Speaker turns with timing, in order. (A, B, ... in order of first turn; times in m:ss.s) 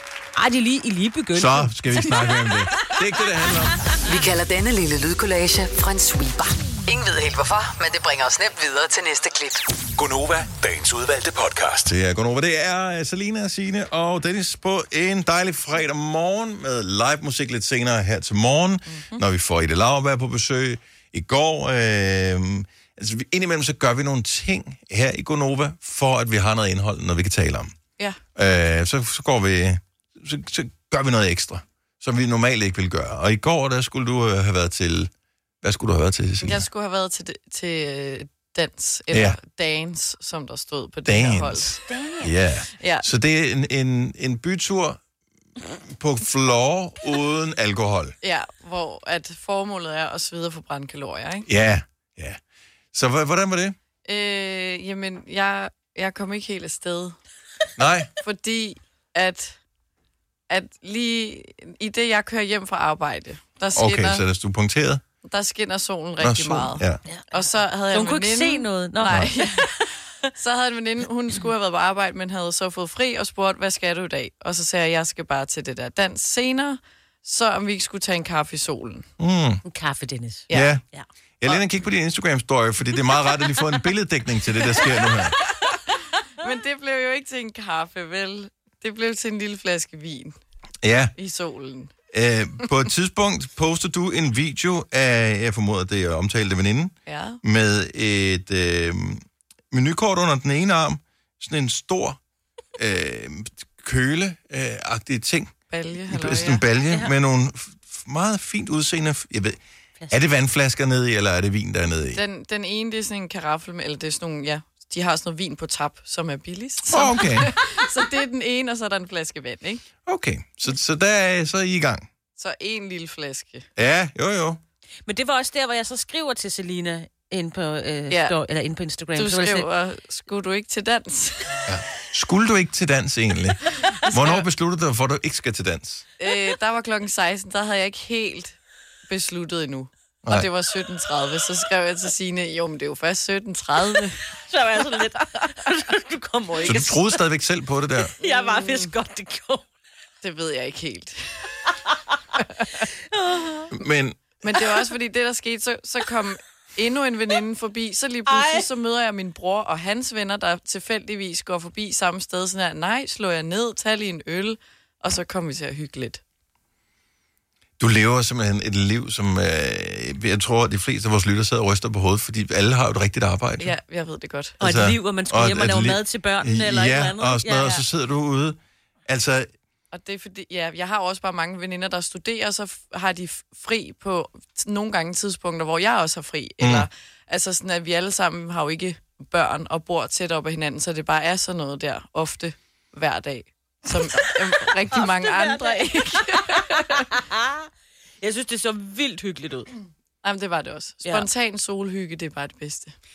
0:00.4-0:02.2 A
0:01.4-0:03.8 B
0:04.1-0:09.6 C
0:10.0-0:11.9 D
0:11.8-0:27.7 B
0:18.9-0:19.2 E
0:28.4-0:35.1 B
0:35.6-0:36.6 B
0:36.4-0:41.7 E
0:39.1-0:39.4 B
0:41.1-0:45.0 B
0:41.9-0:42.4 A
0:42.8-0:43.1 E
0:45.9-0:48.2 B
0:48.2-0:51.5 E
0:51.5-0:52.4 B
0:52.9-0:53.8 B
0:54.1-0:57.2 E
0:57.8-0:58.1 B
0:58.2-0:59.6 E
1:00.5-1:04.2 E
1:03.8-1:05.0 B
1:05.2-1:19.1 E
1:06.2-1:07.0 B
1:07.1-1:09.8 A
1:19.2-1:19.6 B
1:19.7-1:21.1 A
1:20.5-1:20.8 E
1:20.5-1:20.8 B
1:21.4-1:25.4 B
1:25.1-1:30.4 E
1:30.8-1:31.1 B
1:31.2-1:31.9 E
1:32.1-1:42.2 B
1:37.1-1:37.4 E
1:42.8-1:45.5 B
1:45.7-1:46.6 E
1:46.1-1:49.6 B
1:50.1-1:52.2 B
1:52.1-1:59.8 E
1:56.9-1:57.5 B
2:00.1-2:02.1 B
2:02.4-2:03.7 E
2:03.8-2:04.6 B
2:05.1-2:09.7 A
2:09.2-2:11.6 E
2:11.7-2:13.6 B
2:13.8-2:14.5 E
2:14.1-2:16.0 B
2:16.2-2:24.2 E
2:24.5-2:27.2 A
2:26.6-2:28.1 B
2:28.2-2:29.6 A
2:28.2-2:28.9 E
2:30.2-2:31.2 E
2:32.4-2:32.8 E
2:33.1-2:33.7 A
2:33.7-2:34.2 B
2:34.4-2:46.2 E
2:38.3-2:38.7 A
2:47.8-2:53.8 B
2:53.6-2:54.6 E
2:54.6-2:57.8 A
2:54.6-2:59.5 B
2:59.9-3:17.1 E
3:06.6-3:06.9 B
3:14.9-3:17.7 A
3:18.2-3:19.7 A
3:20.2-3:23.0 E